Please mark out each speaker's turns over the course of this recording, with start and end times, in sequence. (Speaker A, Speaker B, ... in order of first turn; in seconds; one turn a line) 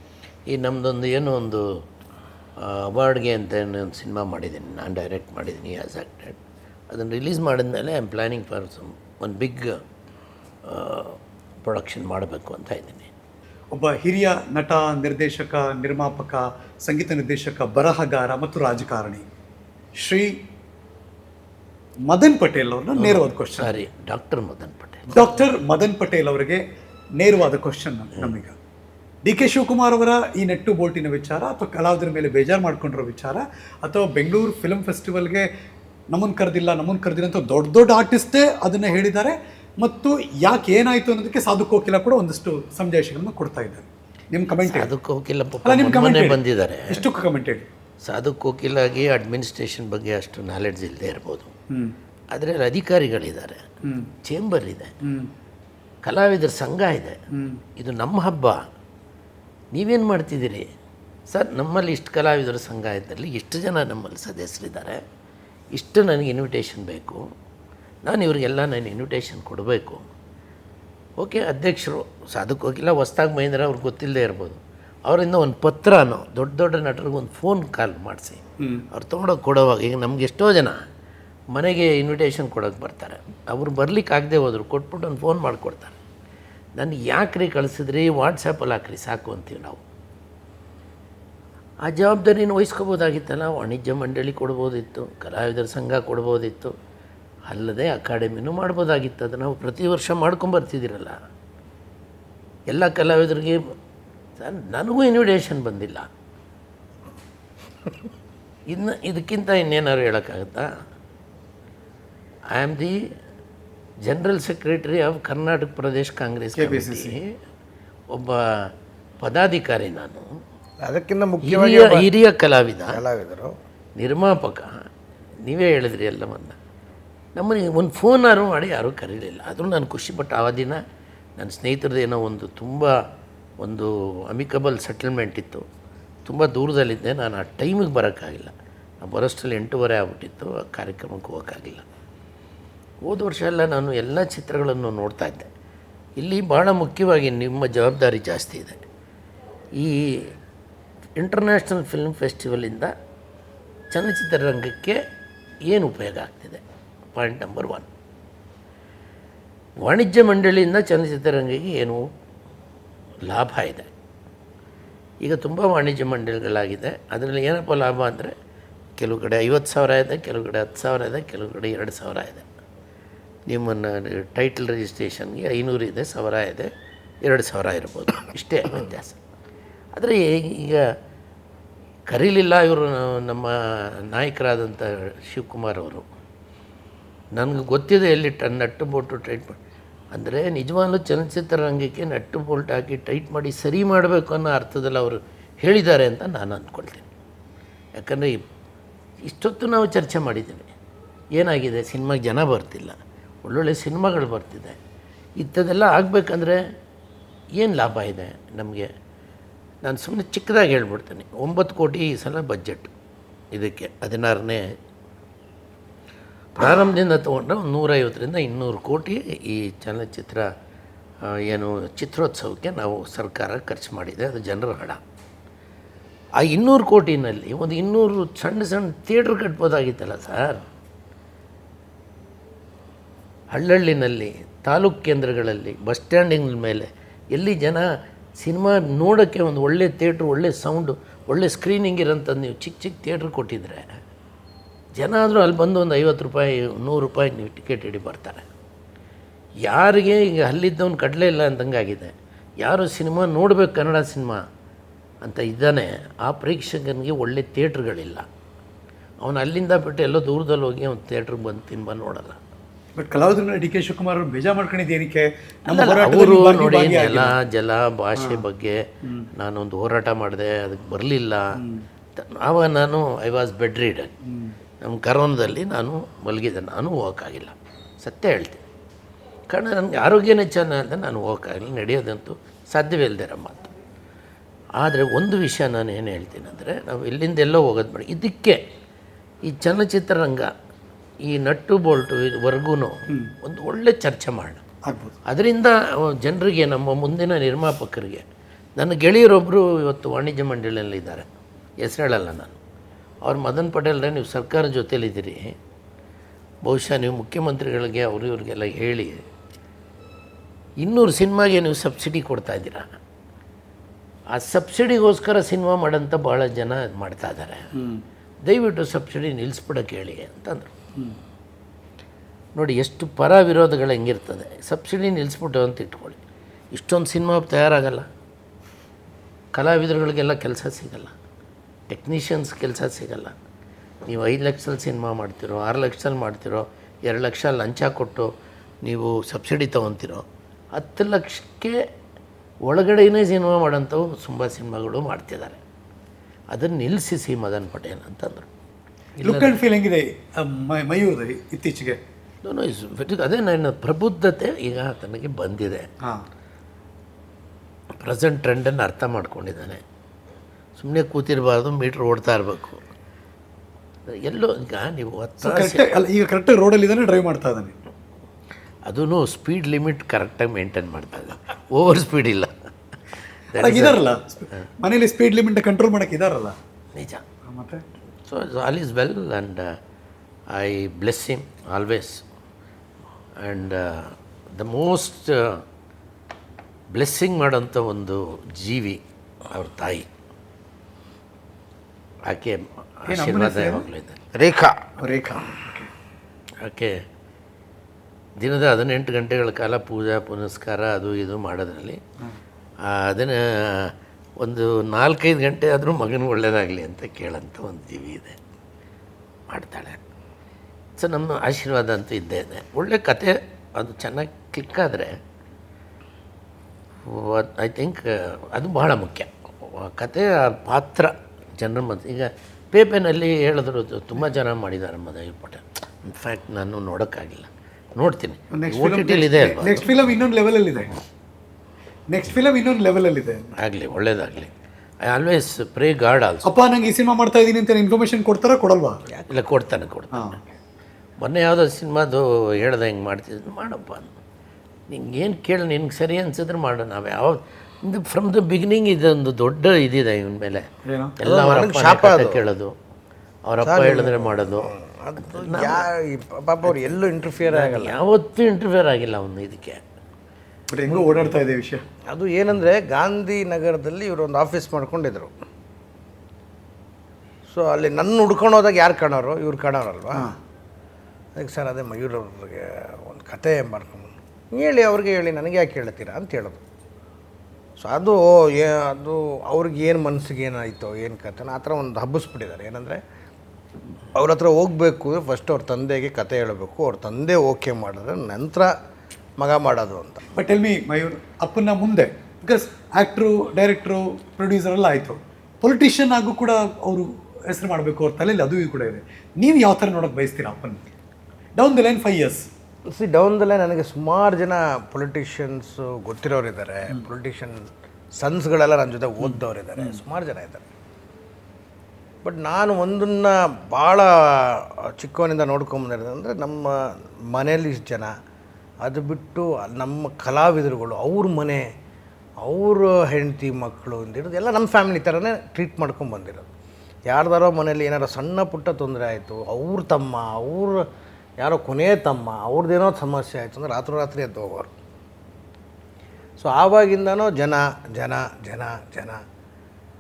Speaker A: 0.5-1.8
Speaker A: 2.6-6.4
Speaker A: 6.9-9.8
Speaker A: 10.7-13.1
Speaker B: 13.7-19.2
Speaker B: 20.0-20.3
Speaker B: 22.1-23.8
Speaker A: 23.0-25.2
Speaker B: 25.1-26.6
Speaker B: 27.2-28.5
Speaker B: 29.2-35.5
Speaker B: 36.1-44.9
Speaker A: 44.6-47.0
Speaker B: 45.6-47.7
Speaker A: 48.0-51.5
Speaker A: 52.3-53.6
Speaker A: 54.2-54.9
Speaker B: 55.0-55.3
Speaker A: 56.0-57.2
Speaker B: 57.3-57.6
Speaker A: 57.8-58.6
Speaker A: 59.7-60.7
Speaker A: 61.3-65.0
Speaker A: 65.7-67.3
Speaker A: 68.0-70.1
Speaker A: 71.2-80.8
Speaker A: 81.5-85.9
Speaker A: 86.8-89.8
Speaker A: 91.8-96.7
Speaker A: 97.5-101.1
Speaker A: 102.7-103.6
Speaker A: 104.4-106.1
Speaker A: 108.7-110.7
Speaker A: 112.5-113.0
Speaker A: 114.0-117.3
Speaker B: 116.6-117.2
Speaker A: 118.1-120.4
Speaker C: 120.8-122.1
Speaker A: 121.4-123.0
Speaker C: 122.9-123.5
Speaker A: 124.0-124.7
Speaker A: 125.4-126.6
Speaker A: 127.3-130.8
Speaker A: 131.4-132.9
Speaker A: 133.6-135.6
Speaker A: 136.2-141.8
Speaker A: 143.0-145.5
Speaker A: 146.2-148.8
Speaker A: 149.8-150.3
Speaker A: 151.2-152.9
Speaker A: 153.9-155.0
Speaker A: 155.7-156.6
Speaker A: 157.1-157.9
Speaker A: 159.8-162.0
Speaker A: 163.2-163.9
Speaker A: 165.2-168.3
Speaker A: 169.0-172.4
Speaker A: 173.5-176.7
Speaker A: 177.2-179.2
Speaker A: 179.9-180.8
Speaker A: 182.1-186.1
Speaker A: 187.3-189.6
Speaker A: 190.1-197.1
Speaker A: 198.0-198.4
Speaker A: 199.2-200.7
Speaker A: 201.3-204.8
Speaker A: 205.4-206.6
Speaker A: 207.6-208.9
Speaker A: 209.8-212.9
Speaker A: 213.5-214.6
Speaker A: 216.6-220.5
Speaker A: 221.3-225.0
Speaker A: 226.4-230.6
Speaker A: 233.5-237.9
Speaker A: 238.4-243.8
Speaker A: 244.9-248.4
Speaker A: 249.7-254.4
Speaker A: 255.2-258.2
Speaker A: 259.2-262.4
Speaker B: 263.0-267.4
Speaker A: 265.7-268.8
Speaker B: 269.0-269.3
Speaker A: 269.3-271.5
Speaker B: 271.6-271.8
Speaker A: 272.1-274.1
Speaker B: 274.3-274.6
Speaker A: 274.8-278.6
Speaker A: 279.5-283.7
Speaker A: 284.8-288.6
Speaker A: 289.4-290.5
Speaker A: 291.3-294.6
Speaker B: 294.9-295.1
Speaker A: 295.2-298.2
Speaker A: 298.8-301.3
Speaker A: 301.8-302.6
Speaker A: 303.2-305.5
Speaker A: 306.6-309.2
Speaker A: 310.8-312.9
Speaker A: 314.3-317.7
Speaker B: 317.8-318.0
Speaker A: 318.4-320.7
Speaker A: 322.6-326.2
Speaker A: 326.7-328.1
Speaker A: 329.5-331.1
Speaker A: 331.9-333.4
Speaker A: 334.1-338.3
Speaker A: 338.8-340.2
Speaker A: 340.8-341.7
Speaker A: 342.7-345.6
Speaker A: 346.5-348.5
Speaker A: 349.2-349.6
Speaker B: 349.2-352.0
Speaker A: 352.4-355.9
Speaker A: 358.0-359.8
Speaker A: 360.8-362.8
Speaker A: 364.0-365.8
Speaker B: 365.4-367.8
Speaker A: 368.9-372.5
Speaker A: 373.5-374.7
Speaker B: 373.6-376.6
Speaker A: 376.9-377.2
Speaker B: 377.4-377.8
Speaker A: 378.2-379.7
Speaker A: 380.5-382.2
Speaker A: 383.4-385.6
Speaker A: 386.9-390.1
Speaker A: 392.3-394.2
Speaker B: 393.1-393.8
Speaker C: 394.3-394.8
Speaker B: 395.0-395.9
Speaker A: 396.6-396.9
Speaker A: 398.4-402.0
Speaker A: 402.9-408.4
Speaker A: 409.5-410.0
Speaker A: 411.0-415.1
Speaker A: 417.0-430.0
Speaker B: 428.5-430.9
Speaker B: 432.1-433.4
Speaker A: 433.6-434.5
Speaker A: 435.0-436.5
Speaker B: 436.4-439.0
Speaker A: 439.2-440.4
Speaker B: 440.1-440.5
Speaker A: 441.2-444.1
Speaker A: 444.9-450.6
Speaker B: 450.9-451.1
Speaker A: 451.2-452.7
Speaker C: 451.2-452.4
Speaker A: 453.5-455.9
Speaker C: 453.6-458.0
Speaker A: 456.7-456.9
Speaker A: 457.5-459.8
Speaker B: 460.7-461.8
Speaker C: 462.1-465.3
Speaker C: 467.5-470.3
Speaker C: 471.4-476.6
Speaker C: 477.8-483.0
Speaker C: 484.2-488.7
Speaker C: 489.4-490.2
Speaker B: 490.3-500.8
Speaker B: 501.6-502.4
Speaker C: 502.9-507.6
Speaker C: 508.2-510.6
Speaker B: 509.2-509.9
Speaker C: 512.2-518.1
Speaker C: 518.8-521.7
Speaker C: 522.4-526.5
Speaker C: 527.1-530.9
Speaker C: 531.4-534.7
Speaker C: 536.4-539.2